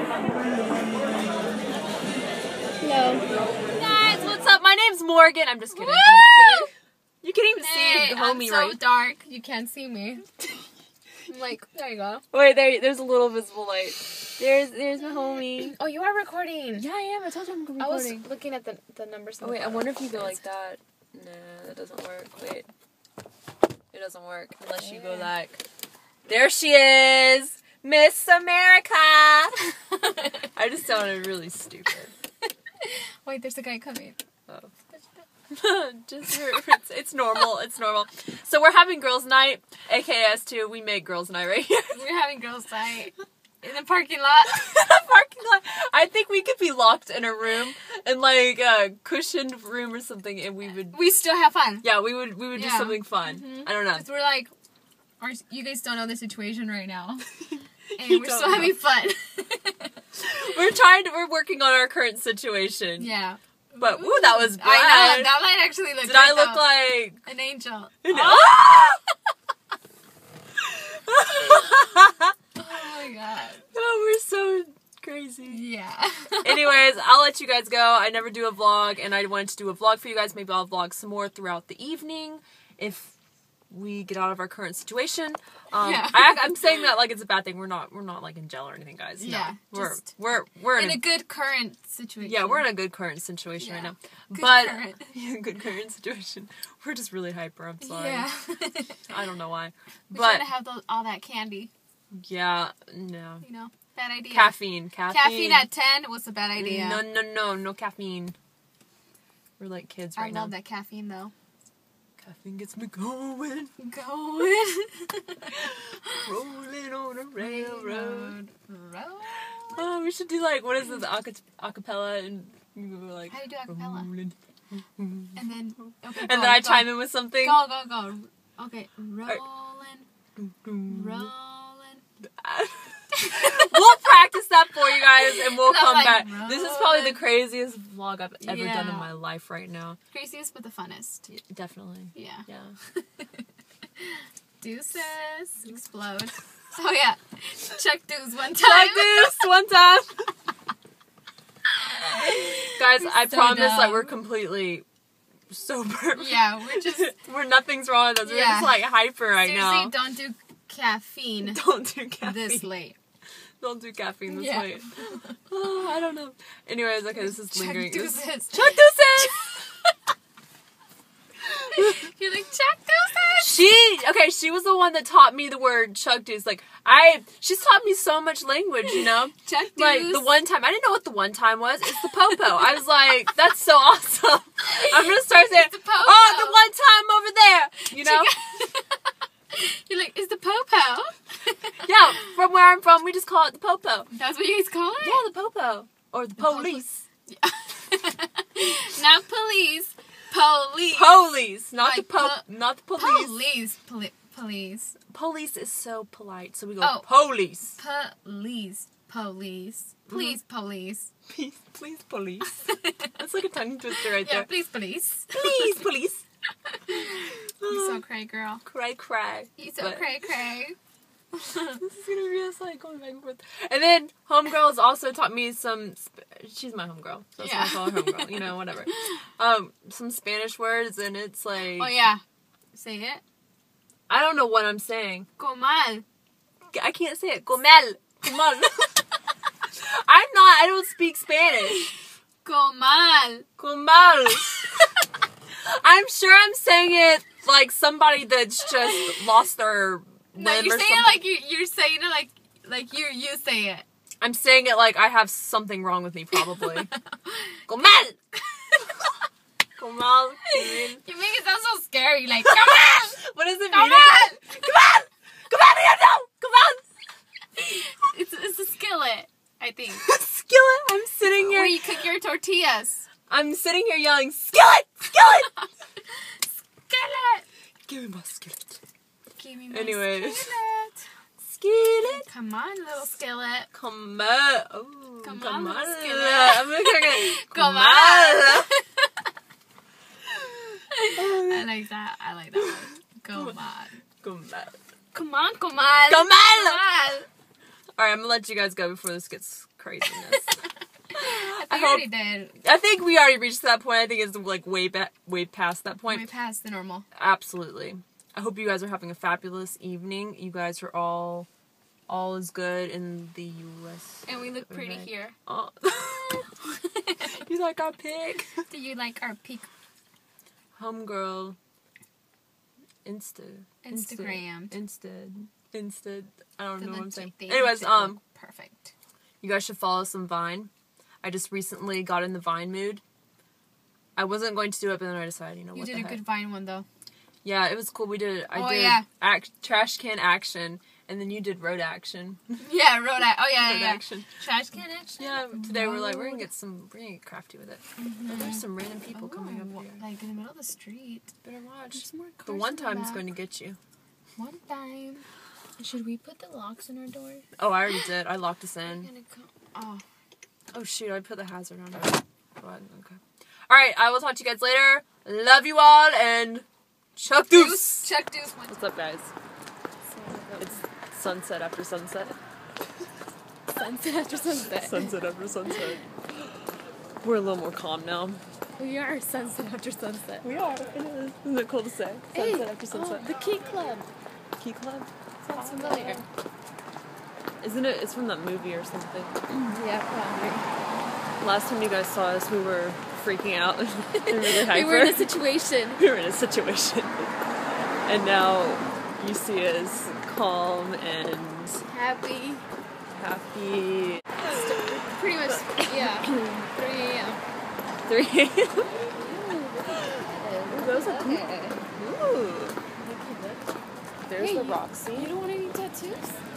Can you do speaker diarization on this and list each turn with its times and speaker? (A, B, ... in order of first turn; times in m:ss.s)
0:02.8-0:03.2 A
0:03.7-0:06.7 B
0:05.7-0:06.7 A
0:07.2-0:08.8 B
0:07.6-0:10.2 A
0:11.3-0:12.2 A
0:12.3-0:15.8 B
0:15.6-0:16.8 A
0:16.8-0:18.3 B
0:17.8-0:20.4 A
0:19.4-0:22.7 B
0:23.9-0:25.6 B
0:24.8-0:25.3 A
0:26.3-0:29.7 B
0:30.4-0:32.1 B
0:32.8-0:34.2 A
0:35.5-0:42.0 B
0:41.9-0:44.6 A
0:44.5-0:51.1 B
0:50.9-0:52.0 A
0:51.8-0:54.1 B
0:52.5-0:54.5 A
0:55.2-0:57.2 A
0:57.9-0:58.8 B
0:58.0-1:00.0 A
1:00.2-1:03.1 B
1:03.0-1:09.0 A
1:03.8-1:05.5 B
1:06.0-1:07.2 B
1:08.0-1:09.0 B
1:10.7-1:12.3 B
1:12.6-1:13.7 A
1:13.7-1:15.6 B
1:15.5-1:16.7 A
1:16.4-1:23.1 B
1:23.7-1:31.0 B
1:25.8-1:26.6 A
1:29.2-1:30.1 A
1:30.7-1:32.7 A
1:32.2-1:38.3 B
1:33.6-1:35.1 A
1:37.8-1:39.0 A
1:39.1-1:40.5 B
1:40.1-1:41.7 A
1:42.1-1:43.4 B
1:43.4-1:47.0 A
1:44.3-1:45.7 B
1:46.6-1:48.3 B
1:49.6-1:50.5 B
1:50.2-1:51.3 A
1:52.2-1:53.7 B
1:53.8-1:56.3 A
1:56.2-1:58.4 B
1:57.4-1:59.9 A
1:59.8-2:04.3 B
2:03.3-2:04.1 A
2:05.0-2:05.4 B
2:05.4-2:10.1 A
2:06.1-2:07.6 B
2:10.4-2:11.3 B
2:10.9-2:12.0 A
2:12.4-2:20.0 B
2:13.1-2:13.9 A
2:15.0-2:17.3 A
2:18.4-2:19.1 A
2:20.1-2:21.3 A
2:21.3-2:22.7 B
2:22.1-2:23.4 A
2:24.0-2:29.5 A
2:28.5-2:30.2 B
2:32.1-2:34.2 A
2:32.3-2:34.8 B
2:35.5-2:39.9 B
2:36.1-2:37.1 A
2:38.2-2:41.6 A
2:41.4-2:42.7 B
2:42.2-2:43.0 A
2:43.6-2:49.6 B
2:44.3-2:45.4 A
2:47.1-2:49.6 A
2:51.7-2:53.7 A
2:53.4-3:08.3 B
2:58.8-3:00.3 A
3:04.7-3:06.6 A
3:07.9-3:11.8 A
3:11.8-3:14.1 B
3:14.1-3:15.2 A
3:15.0-3:17.0 B
3:16.4-3:24.9 A
3:20.9-3:23.4 B
3:25.1-3:27.8 B
3:26.8-3:31.1 A
3:30.1-3:30.4 B
3:31.3-3:34.5 B
3:32.6-3:33.1 A
3:34.0-3:35.9 A
3:35.3-3:36.2 B
3:36.7-3:38.6 A
3:37.1-3:38.0 B
3:38.6-3:40.1 B
3:39.6-3:40.8 A
3:41.3-3:41.8 A
3:41.8-3:52.0 B
3:47.4-3:49.0 A
3:51.7-3:53.2 A
3:54.1-3:55.3 B
3:55.4-3:56.0 A
3:56.7-3:58.9 B
3:59.7-4:01.9 B
4:02.4-4:03.5 A
4:03.6-4:04.7 B
4:05.6-4:11.2 B
4:08.9-4:09.1 A
4:10.3-4:13.8 A
4:14.2-4:16.9 B
4:16.5-4:17.4 A
4:17.7-4:18.2 B
4:18.6-4:19.0 A
4:19.8-4:21.0 B
4:20.5-4:23.2 A
4:22.4-4:26.8 B
4:23.7-4:24.5 A
4:27.6-4:30.0 A
4:30.0-4:31.8 B
4:31.3-4:33.1 A
4:33.3-4:35.5 B
4:35.2-4:35.6 A
4:36.8-4:37.4 A
4:37.9-4:38.8 B
4:39.4-4:41.0 A
4:39.7-4:40.5 B
4:41.4-4:42.3 B
4:42.1-4:43.7 A
4:43.7-4:48.7 B
4:45.2-4:49.1 A
4:50.9-4:54.0 A
4:51.1-4:51.7 B
4:54.2-4:54.8 B
4:55.1-4:57.3 A
4:56.1-4:56.8 B
4:58.0-5:00.5 B
5:00.2-5:00.5 A
5:01.1-5:06.3 B
5:01.1-5:02.6 A
5:06.1-5:07.0 A
5:07.1-5:11.5 B
5:12.1-5:16.5 B
5:14.2-5:15.4 A
5:16.5-5:17.3 A
5:17.2-5:18.6 B
5:18.7-5:19.7 A
5:20.8-5:21.6 B
5:23.0-5:28.2 B
5:23.8-5:24.7 A
5:26.8-5:28.9 A
5:29.4-5:30.7 B
5:31.2-5:33.0 B
5:34.2-5:36.2 B
5:35.7-5:36.8 A
5:37.4-5:42.6 B
5:38.5-5:39.0 A
5:42.6-5:46.5 A
5:43.5-5:44.3 B
5:45.2-5:50.0 B
5:48.0-5:51.3 A
5:51.4-5:53.8 B
5:51.9-5:53.2 A
5:54.4-5:55.2 A
5:55.8-5:57.4 A
5:57.6-5:59.1 B
5:58.8-6:00.0 A
6:00.7-6:08.1 B
6:07.5-6:08.8 A
6:08.7-6:09.3 B
6:10.1-6:10.8 A
6:10.6-6:12.4 B
6:13.7-6:15.1 A
6:14.7-6:16.0 B
6:17.2-6:18.4 B
6:18.8-6:20.4 A
6:20.4-6:23.3 B
6:22.3-6:24.1 A
6:24.6-6:26.2 B
6:25.4-6:26.2 A
6:27.6-6:29.5 B
6:29.5-6:30.6 A
6:31.4-6:35.3 B
6:34.1-6:36.0 A
6:36.0-6:37.3 B
6:38.0-6:41.8 B
6:41.9-6:42.6 A
6:43.1-6:46.6 B
6:44.4-6:47.4 A
6:48.1-6:49.0 B
6:49.0-6:51.9 A
6:50.7-6:52.8 B
6:53.0-6:53.6 A
6:54.3-6:55.4 B
6:54.3-6:56.4 A